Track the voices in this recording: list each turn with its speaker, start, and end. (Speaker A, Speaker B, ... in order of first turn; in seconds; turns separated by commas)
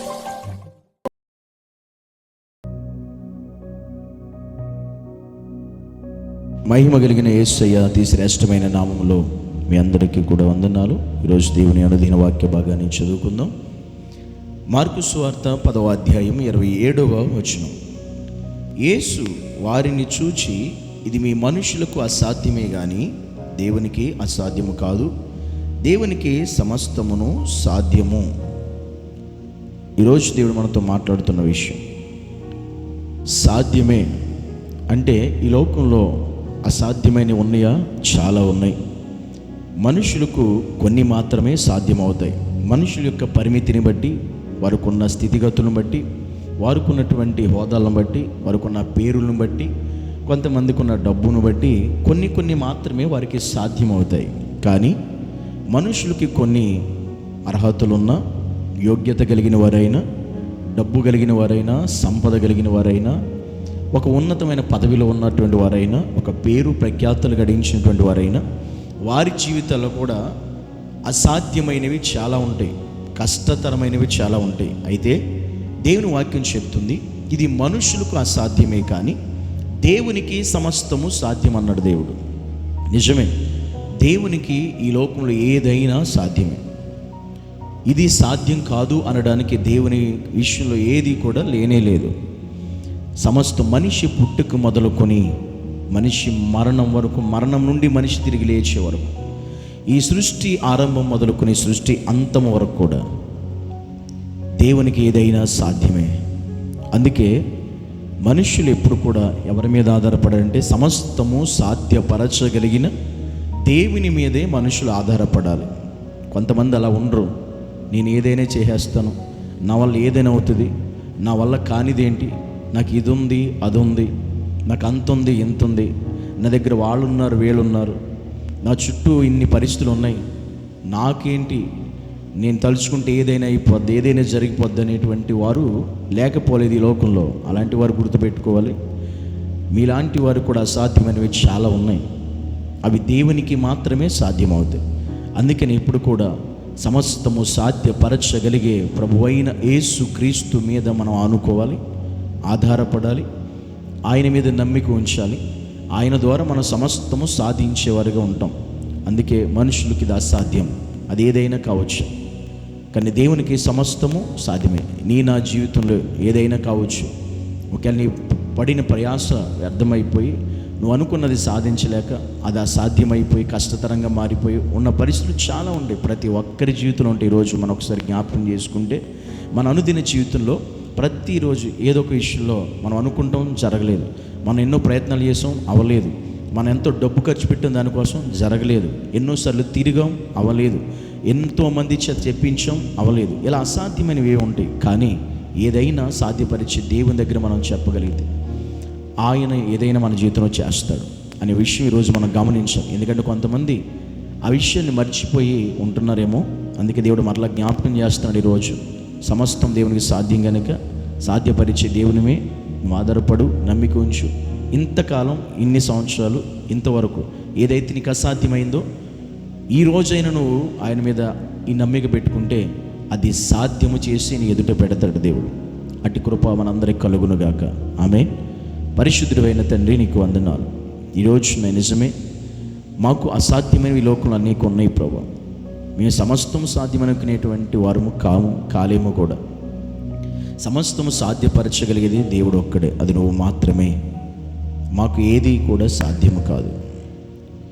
Speaker A: 6.7-13.5, Speaker A: 14.7-17.8, Speaker A: 18.8-25.1, Speaker A: 25.8-28.3, Speaker A: 30.0-31.8, Speaker A: 33.4-34.2, Speaker A: 34.9-36.1, Speaker A: 36.6-38.8, Speaker A: 39.8-46.0, Speaker A: 46.6-49.7, Speaker A: 50.2-55.0, Speaker A: 55.7-56.8, Speaker A: 57.5-58.2, Speaker A: 58.8-60.0, Speaker A: 60.7-63.1, Speaker A: 63.9-68.4, Speaker A: 69.0-70.2, Speaker A: 71.1-75.2, Speaker A: 75.8-79.2, Speaker A: 79.8-82.2, Speaker A: 82.9-83.3, Speaker A: 84.0-86.6, Speaker A: 87.9-92.1, Speaker A: 93.2-95.2, Speaker A: 95.9-99.2, Speaker A: 99.9-103.0, Speaker A: 104.6-106.1, Speaker A: 106.9-107.3, Speaker A: 108.2-112.9, Speaker A: 113.6-115.7, Speaker A: 116.3-117.3, Speaker A: 117.9-124.1, Speaker A: 124.7-125.9, Speaker A: 126.4-128.0, Speaker A: 128.6-130.2, Speaker A: 130.9-131.7, Speaker A: 132.4-138.8, Speaker A: 139.7-142.0, Speaker A: 142.8-144.8, Speaker A: 145.4-146.3, Speaker A: 146.8-151.8, Speaker A: 152.5-153.3, Speaker A: 154.1-155.4, Speaker A: 155.9-158.5, Speaker A: 159.1-162.1, Speaker A: 162.9-167.1, Speaker A: 167.7-179.0, Speaker A: 179.5-198.3, Speaker A: 199.2-203.8, Speaker A: 204.4-218.8, Speaker A: 219.7-228.3, Speaker A: 228.9-232.1, Speaker A: 233.0-235.3, Speaker A: 235.9-239.4, Speaker A: 240.6-243.9, Speaker A: 244.9-246.8